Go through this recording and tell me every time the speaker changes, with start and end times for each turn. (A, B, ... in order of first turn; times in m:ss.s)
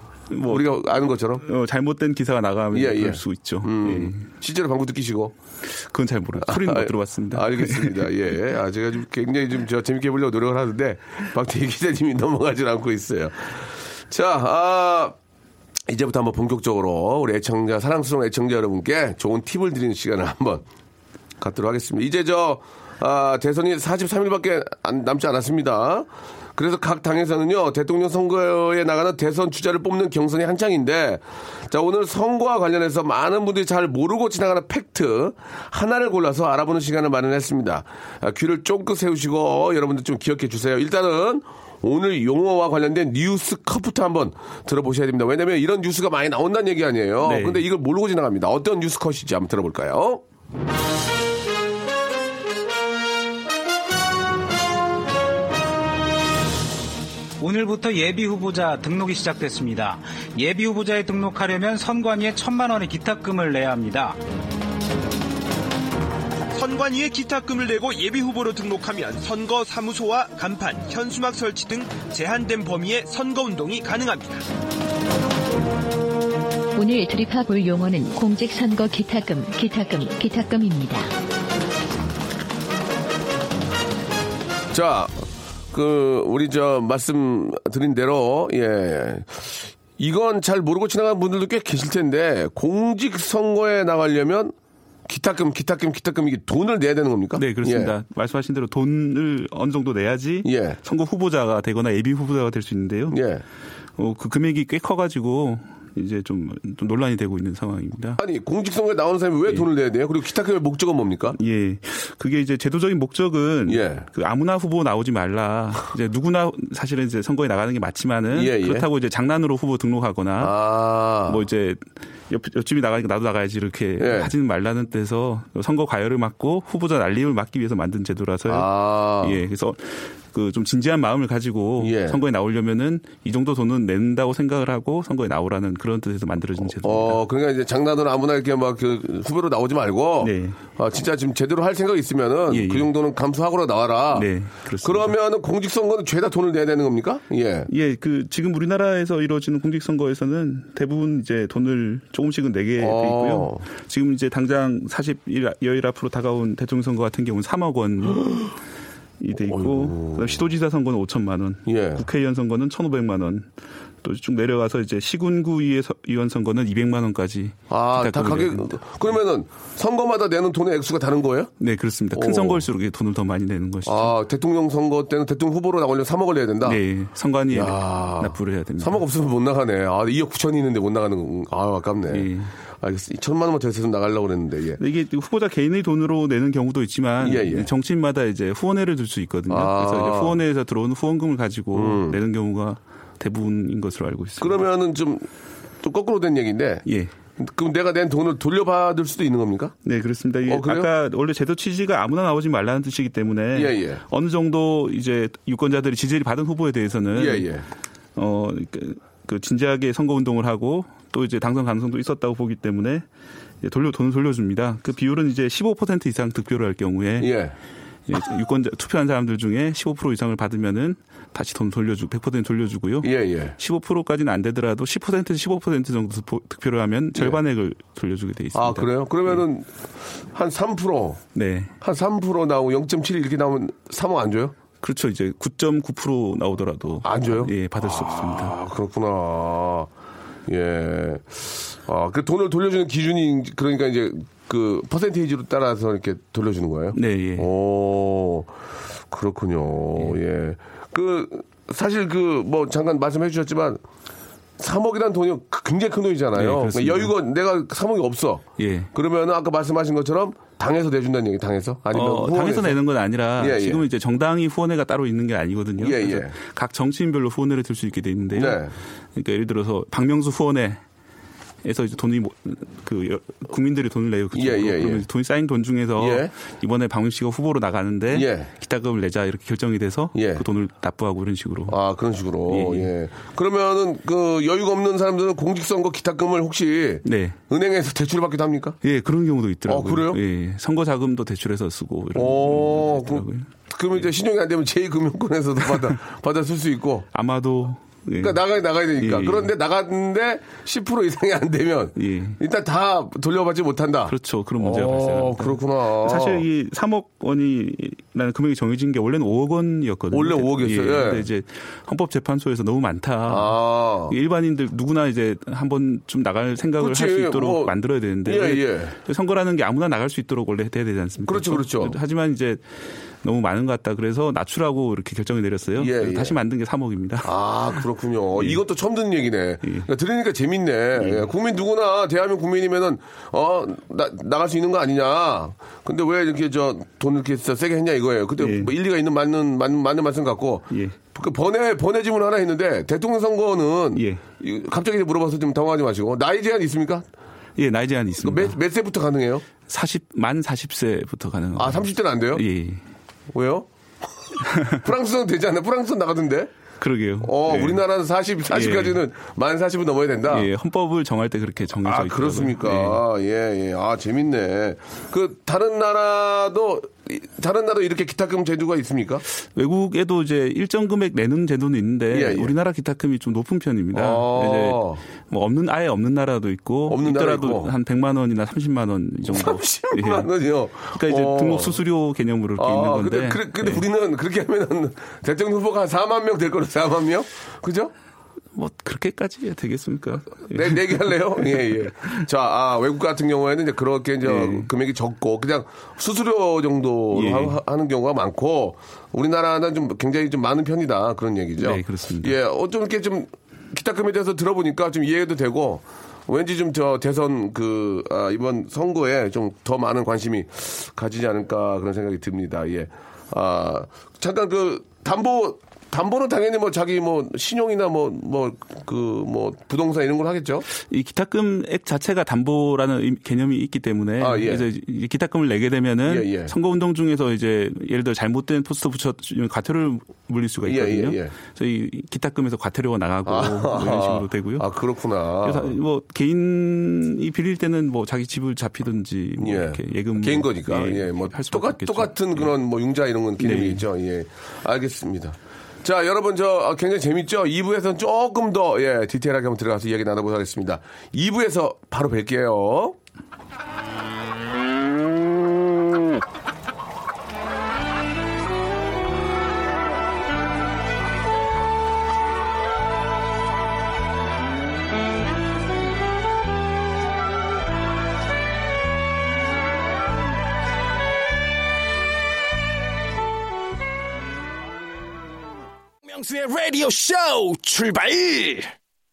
0:00.3-0:00.7 A
0:00.4-0:01.4 B
0:01.4-0:04.3 A
0:02.7-0:05.3 B
0:05.8-0:08.0 A
0:06.4-0:15.2 B
0:15.9-0:20.6 B
0:21.4-0:50.2 B
0:47.2-0:47.6 A
0:57.4-1:04.2 C
1:06.5-1:14.4 D
1:16.8-1:21.1 E
1:24.7-1:25.1 B
1:25.7-1:34.6 B
1:35.1-1:37.9 B
1:37.4-1:43.2 A
1:40.4-1:40.8 B
1:43.1-1:43.4 B
1:44.0-1:48.2 A
1:48.2-1:51.4 B
1:51.4-2:00.6 A
1:53.7-1:54.1 B
1:58.3-1:58.9 B
2:00.4-2:01.4 B
2:01.3-2:17.2 A
2:04.0-2:04.3 B
2:08.5-2:09.4 B
2:11.8-2:12.2 B
2:16.8-2:24.3 B
2:20.2-2:20.6 A
2:22.5-2:22.9 A
2:24.1-2:25.1 A
2:24.8-2:27.7 B
2:27.7-2:38.5 A
2:32.8-2:33.6 B
2:39.2-2:43.5 A
2:39.5-2:40.4 B
2:41.7-2:42.0 B
2:44.0-2:48.8 A
2:47.7-2:51.5 B
2:51.6-2:54.1 A
2:52.1-2:52.6 B
2:53.8-2:56.8 B
2:56.6-2:59.0 A
2:57.5-3:02.3 B
3:02.1-3:02.5 A
3:02.8-3:04.8 B
3:04.8-3:14.6 A
3:07.2-3:07.7 B
3:09.5-3:10.4 B
3:11.7-3:12.2 B
3:14.4-3:15.3 B
3:15.8-3:16.8 B
3:16.9-3:17.1 A
3:17.4-3:19.7 B
3:19.8-3:27.5 A
3:20.5-3:20.9 B
3:23.5-3:24.0 B
3:27.1-3:27.7 B
3:28.2-3:33.0 A
3:33.6-3:37.4 A
3:37.2-3:37.6 B
3:38.1-3:49.4 A
3:43.0-3:43.6 B
3:47.2-3:47.4 B
3:48.5-3:49.7 B
3:50.3-3:51.2 B
3:51.4-3:51.7 A
3:51.8-3:54.6 B
3:54.8-3:58.6 A
3:57.0-3:59.9 B
4:00.5-4:08.5 B
4:07.0-4:07.5 A
4:09.1-4:13.8 B
4:14.6-4:22.8 B
4:16.4-4:17.1 A
4:18.6-4:18.9 A
4:21.9-4:30.8 A
4:23.4-4:23.8 B
4:25.8-4:26.3 B
4:28.3-4:28.8 B
4:31.6-4:41.8 A
4:34.3-4:35.1 B
4:36.0-4:36.3 B
4:38.1-4:38.5 B
4:40.2-4:40.4 B
4:41.7-4:48.8 B
4:42.5-4:42.9 A
4:47.0-4:47.4 A
4:48.8-4:53.5 A
4:49.7-4:50.2 B
4:52.2-4:57.1 B
4:57.1-4:58.4 A
4:58.2-5:06.4 B
4:59.0-4:59.5 A
5:02.0-5:02.4 A
5:04.1-5:22.6 A
5:10.1-5:11.3 B
5:13.3-5:14.2 B
5:16.8-5:19.0 B
5:21.2-5:22.0 B
5:23.2-5:27.3 A
5:25.8-5:26.3 B
5:27.2-5:47.1 B
5:31.0-5:31.3 A
5:38.4-5:38.7 A
5:40.7-5:41.0 A
5:44.0-5:44.2 A
5:47.6-5:48.6 A
5:48.2-5:49.4 B
5:49.7-5:52.8 A
5:51.6-5:52.4 B
5:53.3-5:53.7 B
5:54.5-5:54.8 A
5:54.7-5:56.5 B
5:56.8-5:57.8 A
5:57.2-6:00.5 B
5:58.5-5:59.0 A
6:00.3-6:03.0 A
6:01.8-6:09.2 B
6:09.4-6:23.8 A
6:12.1-6:12.6 B
6:13.9-6:15.0 B
6:16.9-6:17.7 B
6:19.3-6:21.8 B
6:22.6-6:27.9 B
6:28.6-6:32.0 A
6:30.5-7:00.7 B
6:34.2-6:34.7 A
6:37.1-6:37.6 A
6:41.6-6:42.4 A
7:00.8-7:14.7 A
7:04.2-7:04.7 B
7:06.1-7:06.5 B
7:10.6-7:11.3 B
7:13.3-7:15.8 B
7:15.4-7:22.5 A
7:19.4-7:33.0 B
7:23.4-7:23.8 A
7:56.0-7:58.7 F